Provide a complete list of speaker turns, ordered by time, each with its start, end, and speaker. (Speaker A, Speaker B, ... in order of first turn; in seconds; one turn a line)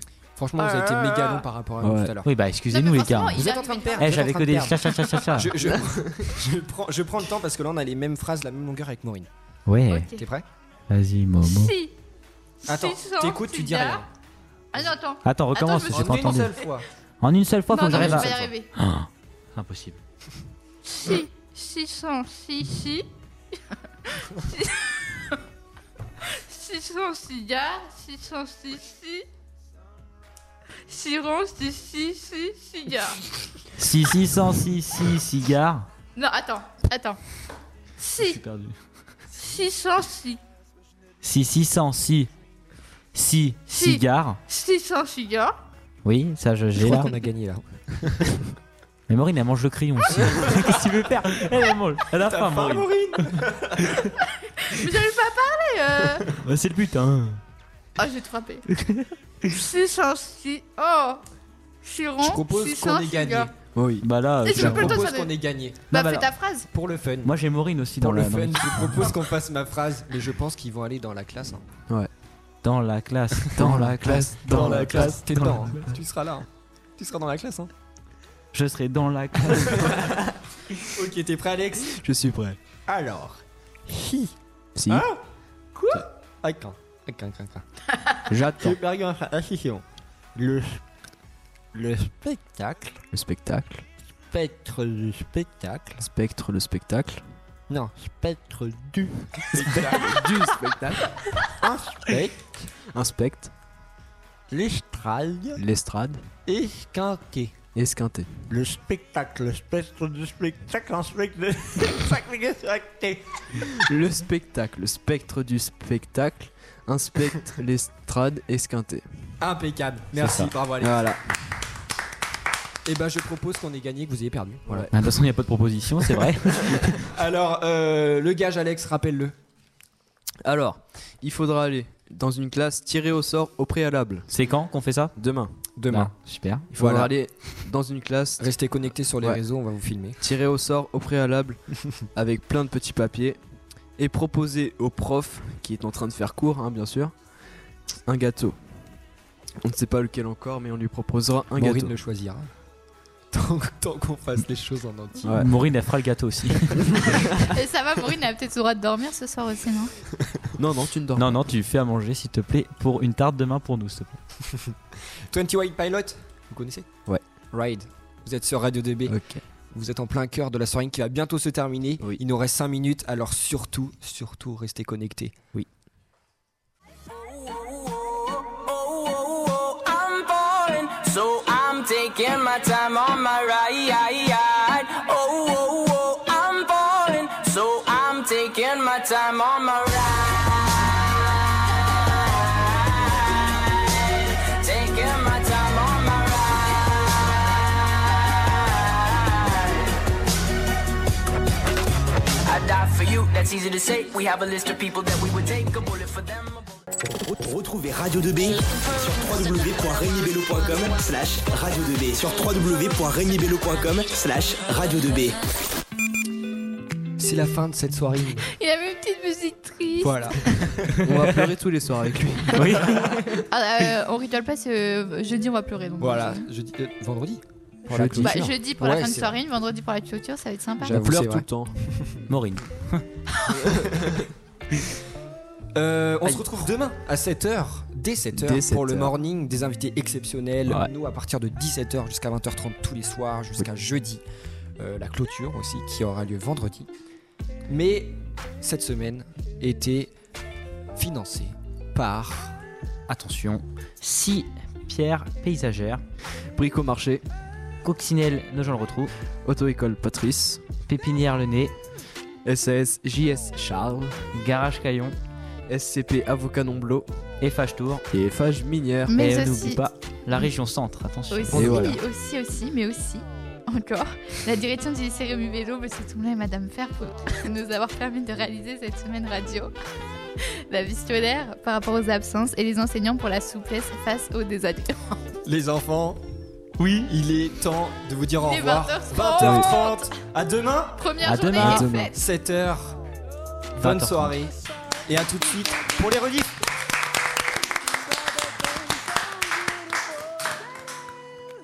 Speaker A: 0.3-2.3
Speaker B: 0.6-1.4
Speaker C: 1.8-2.1
Speaker D: 2.2-3.5
Speaker B: 2.7-4.1
Speaker A: 3.3-9.3
Speaker D: 4.0-5.5
Speaker D: 9.7-10.1
Speaker B: 9.9-10.2
Speaker A: 10.1-10.4
Speaker D: 10.9-11.7
Speaker B: 11.4-11.9
Speaker B: 12.6-14.0
Speaker A: 12.7-14.1
Speaker B: 14.7-16.4
Speaker D: 15.2-16.6
Speaker A: 15.9-16.9
Speaker D: 17.2-20.0
Speaker B: 17.7-18.7
Speaker A: 17.9-18.4
Speaker B: 20.9-23.1
Speaker B: 24.1-25.4
Speaker B: 26.2-29.2
Speaker B: 30.9-33.2
Speaker D: 33.8-35.9
Speaker B: 36.1-37.2
Speaker B: 38.0-38.4
Speaker D: 38.2-38.8
Speaker B: 39.3-40.4
Speaker D: 41.2-42.3
Speaker D: 43.1-44.4
Speaker B: 43.7-45.5
Speaker D: 46.0-47.1
Speaker A: 46.8-48.4
Speaker D: 49.1-54.1
Speaker A: 52.2-54.0
Speaker B: 54.4-56.3
Speaker D: 56.3-57.4
Speaker B: 58.0-58.6
Speaker D: 58.7-59.1
Speaker B: 59.4-61.2
Speaker B: 61.8-63.5
Speaker A: 62.2-63.5
Speaker C: 63.7-64.8
Speaker D: 64.0-65.0
Speaker B: 64.4-66.7
Speaker A: 64.5-67.3
Speaker D: 67.2-69.1
Speaker A: 68.0-71.7
Speaker D: 72.6-75.8
Speaker C: 73.5-75.6
Speaker A: 73.6-77.7
Speaker D: 78.5-80.1
Speaker A: 80.9-82.0
Speaker C: 81.9-82.6
Speaker A: 82.9-84.3
Speaker C: 84.7-85.1
Speaker A: 84.9-85.2
Speaker A: 85.8-87.6
Speaker C: 88.3-88.7
Speaker A: 88.6-90.8
Speaker A: 91.7-93.0
Speaker C: 93.1-93.8
Speaker A: 94.3-96.0
Speaker C: 96.0-97.2
Speaker A: 97.7-100.3
Speaker C: 99.5-101.1
Speaker A: 101.6-102.5
Speaker C: 102.9-103.5
Speaker A: 104.5-105.6
Speaker C: 105.5-106.2
Speaker A: 106.5-107.6
Speaker C: 107.7-108.5
Speaker A: 108.5-113.4
Speaker C: 113.6-119.0
Speaker A: 119.4-121.0
Speaker D: 120.2-120.5
Speaker C: 120.8-121.2
Speaker A: 122.8-124.9
Speaker D: 124.9-127.0
Speaker A: 126.6-129.3
Speaker C: 130.4-134.3
Speaker D: 134.3-137.1
Speaker C: 135.2-135.6
Speaker A: 135.8-136.1
Speaker C: 136.7-138.5
Speaker A: 136.8-137.1
Speaker A: 138.4-140.2
Speaker C: 140.2-143.4
Speaker C: 144.0-147.1
Speaker C: 148.1-148.6
Speaker C: 149.6-151.9
Speaker A: 151.6-152.5
Speaker A: 153.3-155.4
Speaker C: 155.2-155.5
Speaker D: 155.3-157.1
Speaker B: 157.5-159.9
Speaker C: 160.6-161.4
Speaker D: 161.2-164.2
Speaker A: 165.3-167.0
Speaker A: 167.5-169.2
Speaker C: 169.1-169.4
Speaker A: 169.7-175.4
Speaker E: 177.1-199.9
Speaker E: 202.4-206.7
Speaker F: 207.1-215.4
Speaker A: 217.2-218.5
Speaker B: 218.5-220.4
Speaker A: 220.0-220.9
Speaker C: 221.0-222.9
Speaker D: 221.1-221.5
Speaker D: 222.5-223.4
Speaker B: 223.5-226.4
Speaker A: 226.0-229.4
Speaker C: 227.9-228.6
Speaker B: 228.2-230.9
Speaker C: 230.8-231.7
Speaker A: 230.9-232.0
Speaker D: 232.3-233.1
Speaker A: 233.8-234.1
Speaker A: 235.7-244.2
Speaker C: 238.3-239.1
Speaker A: 244.8-246.9
Speaker A: 247.7-250.1
Speaker A: 250.9-252.6
Speaker D: 253.1-256.0
Speaker C: 256.5-257.2
Speaker D: 257.8-259.1
Speaker C: 259.4-260.7
Speaker D: 260.9-261.7
Speaker C: 262.4-264.2
Speaker D: 264.3-265.1
Speaker C: 265.7-267.1
Speaker D: 267.4-268.0
Speaker C: 268.1-269.1
Speaker B: 269.1-269.8
Speaker D: 269.1-272.0
Speaker B: 271.3-279.7
Speaker C: 271.5-272.0
Speaker B: 280.4-285.2
Speaker A: 285.4-286.2
Speaker D: 286.8-287.1
Speaker A: 287.0-291.1
Speaker B: 288.4-290.2
Speaker C: 289.4-289.7
Speaker B: 291.0-292.1
Speaker D: 291.2-291.9
Speaker C: 291.6-292.1
Speaker A: 292.1-293.0
Speaker A: 293.8-296.6
Speaker D: 293.8-294.3